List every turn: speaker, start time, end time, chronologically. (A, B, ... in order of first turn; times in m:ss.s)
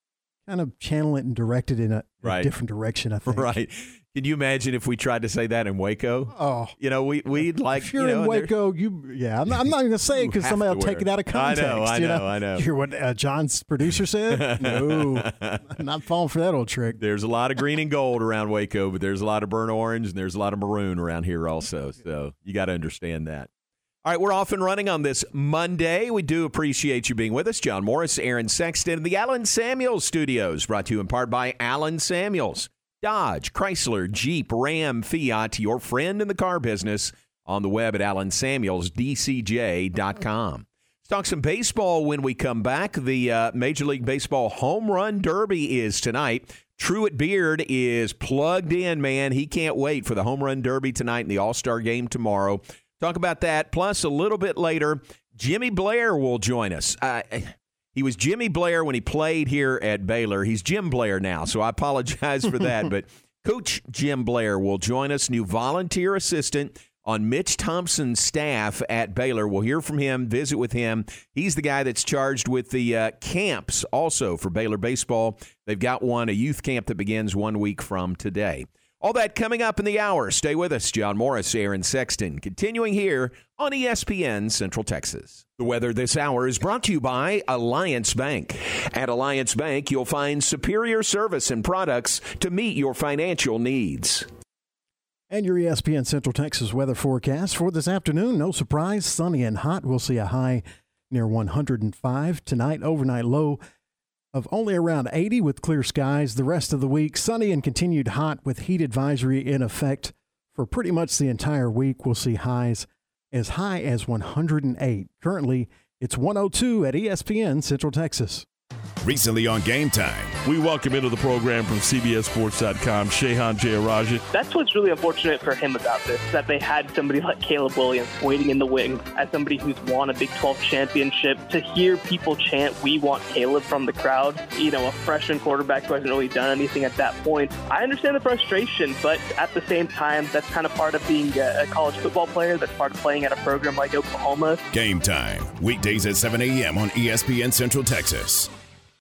0:00.4-0:03.5 A
0:02.2-0:02.5 B
0:03.2-0:08.5 B
0:06.3-0:06.7 A
0:07.8-0:17.0 A
0:10.1-0:12.6 B
0:14.3-0:15.6 B
0:17.0-0:23.5 B
0:24.0-1:34.3 B
1:02.6-1:02.9 A
1:35.3-1:43.6 A
1:44.3-1:58.4 A
1:59.0-2:00.4 C
2:00.4-2:04.2 D
2:04.3-2:24.6 E
2:24.7-2:28.5 C